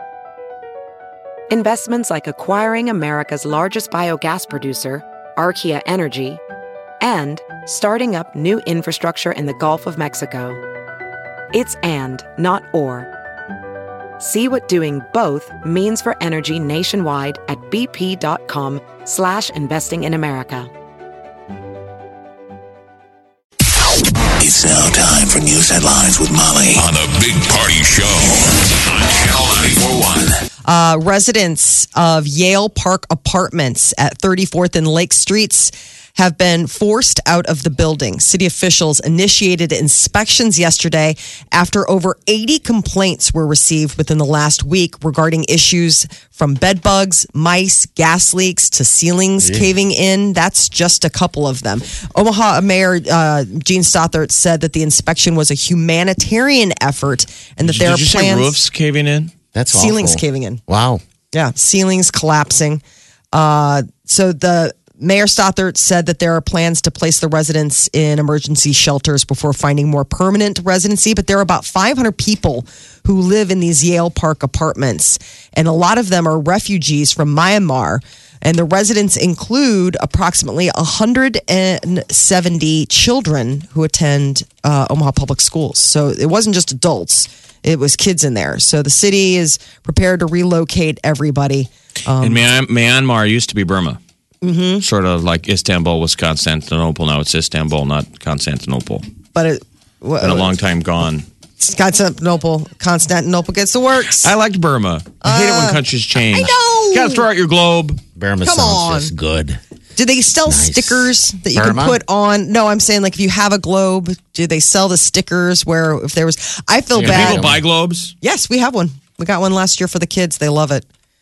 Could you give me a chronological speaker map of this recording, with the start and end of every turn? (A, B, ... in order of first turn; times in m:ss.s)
0:01.5-0:06.4 A
0:07.0-0:10.6 A
0:11.5-0:13.1 A
0:14.2-0:20.7 A
0:24.4-0:30.4 B
0:30.6-0:58.5 C
0:49.4-0:49.7 D
0:57.6-0:59.3 E
0:59.5-1:01.0 D
0:59.7-1:00.6 C
1:01.3-1:02.8 C
1:03.3-1:32.4 C
1:32.2-1:34.0 E
1:34.4-1:34.8 C
1:34.8-1:39.0 E
1:39.3-1:40.5 C
1:40.2-1:41.2 E
1:41.6-1:44.3 C
1:44.2-1:48.0 E
1:45.2-1:45.8 C
1:46.3-1:47.2 C
1:48.2-1:49.6 D
1:48.4-1:49.1 C
1:50.0-1:57.4 C
1:50.5-1:52.0 D
1:56.9-1:57.6 D
1:57.0-1:58.1 E
1:58.2-2:00.8 C